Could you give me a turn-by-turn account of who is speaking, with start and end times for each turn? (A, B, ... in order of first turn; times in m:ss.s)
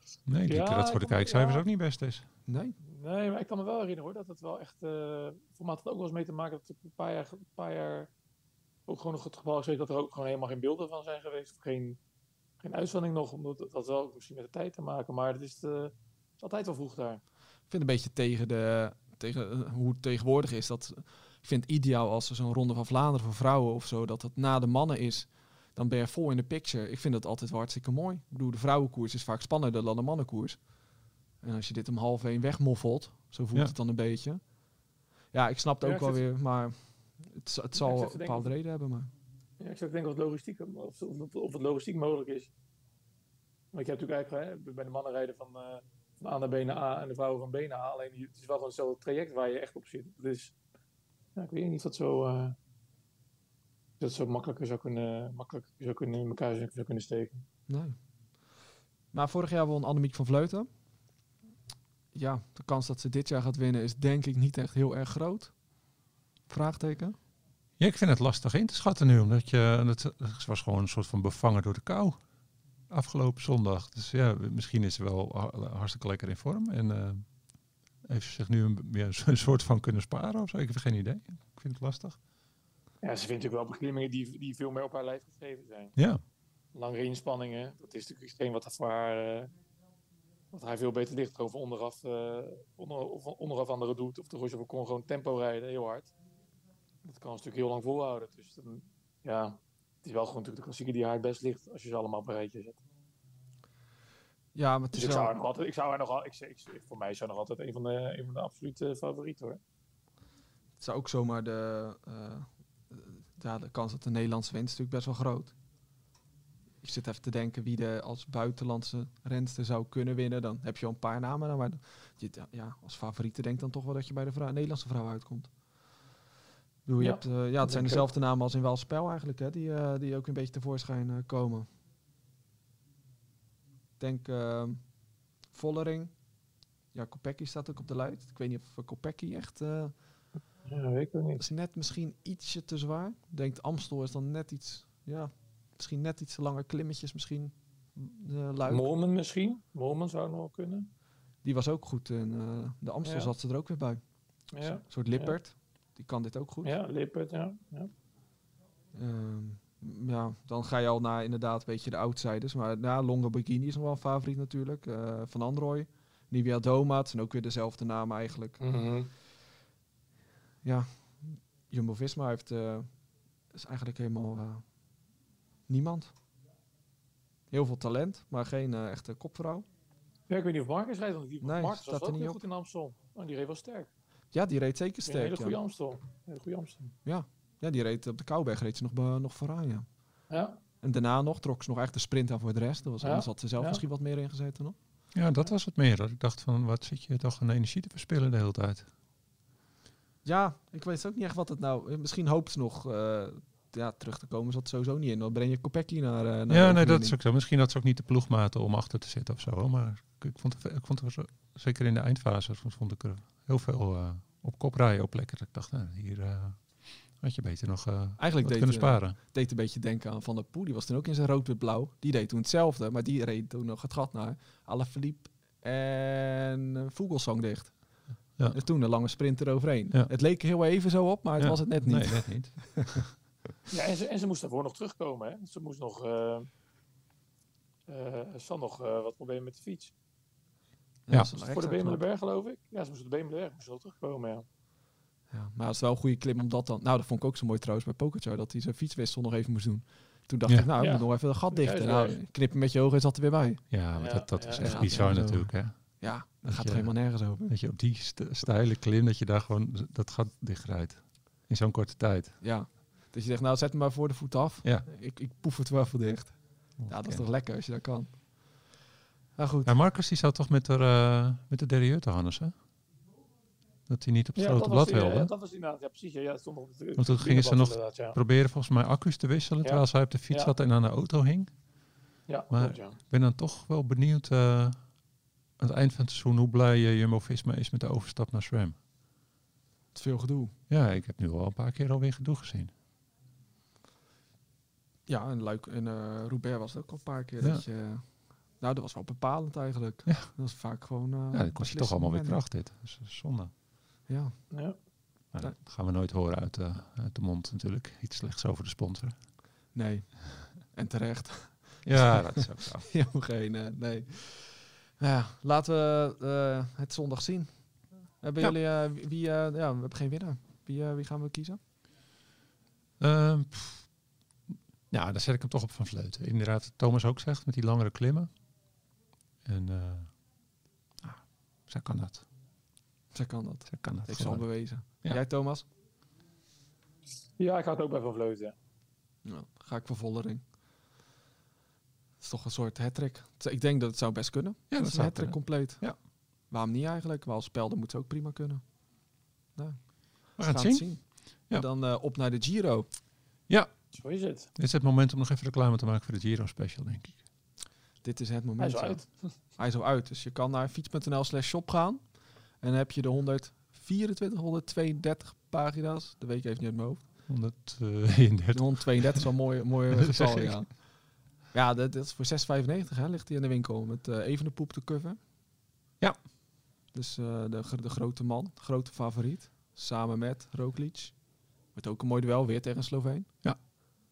0:00.3-0:02.2 A
0:00.5-0:01.6 B
0:02.4-0:02.8 C
0:02.8-0:08.1 B
0:08.9-0:12.0 B
0:12.6-0:17.2 B
0:17.7-0:30.7 C
0:31.4-0:34.4 C
0:35.3-0:39.1 C
0:35.8-0:36.2 B
0:37.8-0:38.5 B
0:39.6-0:42.5 B
0:43.7-0:50.5 B
0:51.4-0:52.6 B
0:54.0-0:57.4 B
0:57.7-0:58.0 C
0:59.1-1:00.7 C
1:02.1-1:05.6 C
1:06.5-1:07.2 C
1:07.8-1:12.2 A
1:12.9-1:17.3 A
1:18.0-1:22.2 A
1:23.0-1:26.0 B
1:26.0-1:26.2 A
1:26.7-1:29.5 B
1:30.5-1:36.1 B
1:37.0-1:42.8 B
1:44.5-1:45.3 C
1:44.9-1:49.6 B
1:50.8-1:55.5 C
1:56.8-2:05.5 C
2:06.8-2:11.7 C
2:07.0-2:08.0 B
2:14.0-2:14.9 C
2:15.5-2:16.2 C
2:16.9-2:19.9 C
2:20.6-2:21.4 B
2:21.4-2:28.8 C
2:28.6-2:30.9 B
2:31.4-2:34.0 C
2:33.0-2:33.3 B
2:34.5-2:35.4 B
2:34.6-2:36.7 C
2:36.6-2:37.9 B
2:38.9-2:48.6 C
2:48.6-2:49.1 B
2:50.6-2:53.0 C
2:53.5-2:54.7 C
2:55.7-2:56.1 C
2:57.5-2:59.6 C
3:00.3-3:03.9 B
3:01.4-3:02.4 C
3:04.3-3:05.6 C
3:05.0-3:06.9 B
3:07.0-3:09.9 C
3:10.3-3:10.6 B
3:10.8-3:14.8 C
3:13.0-3:13.8 B
3:15.1-3:18.9 A
3:20.2-3:27.2 C
3:26.5-3:39.2 A
3:38.2-3:53.0 C
3:51.4-3:53.1 A
3:53.7-3:56.5 B
3:57.9-3:59.9 B
4:01.1-4:02.0 C
4:01.4-4:04.4 B
4:05.3-4:13.6 C
4:10.8-4:12.2 B
4:13.7-4:22.4 A
4:14.0-4:15.0 B
4:14.6-4:17.5 C
4:22.4-4:28.6 C
4:26.8-4:27.3 A
4:29.4-4:29.7 C
4:29.6-4:32.5 A
4:33.9-4:35.3 A
4:34.4-4:38.2 B
4:37.0-4:41.5 A
4:39.6-4:40.5 B
4:42.3-4:43.0 B
4:42.5-4:44.9 A
4:45.6-4:48.8 A
4:49.9-4:50.5 C
4:50.7-4:52.7 A
4:55.1-5:02.4 C
4:57.4-4:57.6 A
5:00.0-5:00.3 A
5:01.3-5:03.5 A
5:04.1-5:04.5 C
5:04.5-5:04.8 B
5:05.3-5:09.1 A
5:09.7-5:21.6 C
5:11.8-5:12.9 A
5:23.0-5:23.9 A
5:24.5-5:28.3 A
5:29.4-5:30.2 A
5:31.0-5:32.2 A
5:33.1-5:35.6 C
5:33.7-5:35.2 A
5:37.4-5:38.6 B
5:39.2-5:40.4 C
5:42.2-5:48.6 C
5:44.7-5:46.0 A
5:49.5-5:52.9 C
5:50.4-5:51.6 A
5:53.9-5:54.5 B
5:54.6-5:57.2 A
5:58.0-6:07.0 C
5:58.6-5:59.3 B
6:07.3-6:09.2 A
6:08.5-6:11.0 C
6:09.9-6:10.7 A
6:11.5-6:15.2 C
6:16.9-6:21.2 C
6:21.7-6:23.3 C